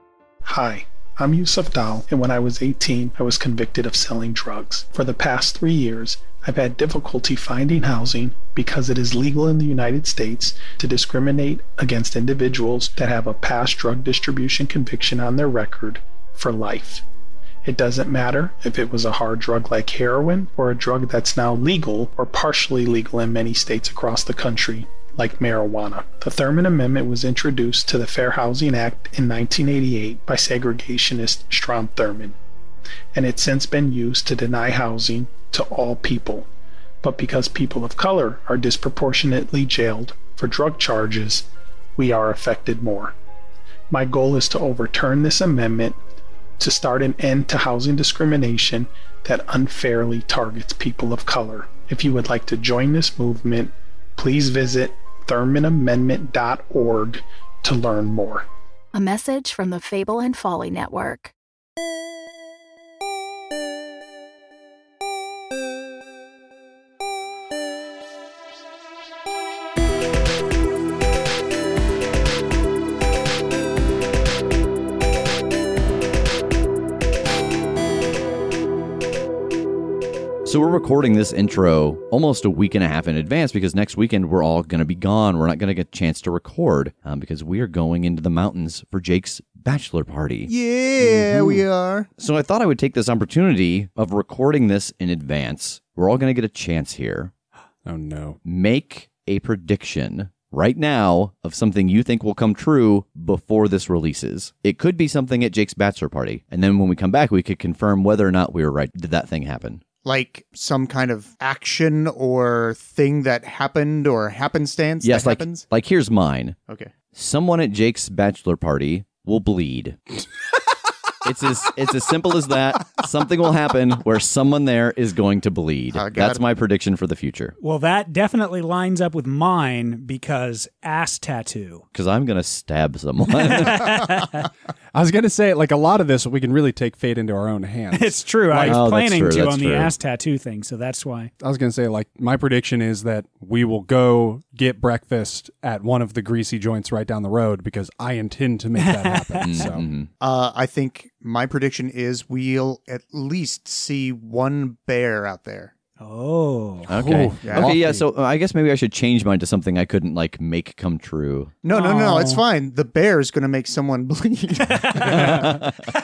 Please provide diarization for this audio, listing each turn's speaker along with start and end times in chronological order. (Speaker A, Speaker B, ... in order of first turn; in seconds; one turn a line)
Speaker A: 0.5-17.0
Speaker A: 17.6-32.4
Speaker A: 33.1-36.5
Speaker A: 37.0-43.1
Speaker A: 43.9-46.0
Speaker A: 46.6-58.5
Speaker B: 58.9-61.3
Speaker C: 80.5-91.6
Speaker D: 90.5-92.1
Speaker C: 92.2-97.3
Speaker E: 97.8-98.4
Speaker C: 98.5-109.8
Speaker D: 110.0-115.7
Speaker C: 115.0-116.6
Speaker C: 117.1-120.0
Speaker C: 121.2-127.5
Speaker D: 125.9-126.4
Speaker F: 127.6-131.8
Speaker C: 131.9-134.3
Speaker F: 133.5-134.4
Speaker E: 134.9-138.8
Speaker F: 137.9-141.3
Speaker C: 138.6-139.9
Speaker E: 141.4-149.9
Speaker F: 148.8-149.7
Speaker C: 149.4-150.1
Speaker D: 150.2-155.7
Speaker F: 156.0-156.9
Speaker E: 156.9-158.1
Speaker C: 156.9-161.6
Speaker D: 157.4-157.7
Speaker D: 161.6-165.6
Speaker F: 161.7-162.4
Speaker F: 164.7-165.3
Speaker C: 165.0-165.7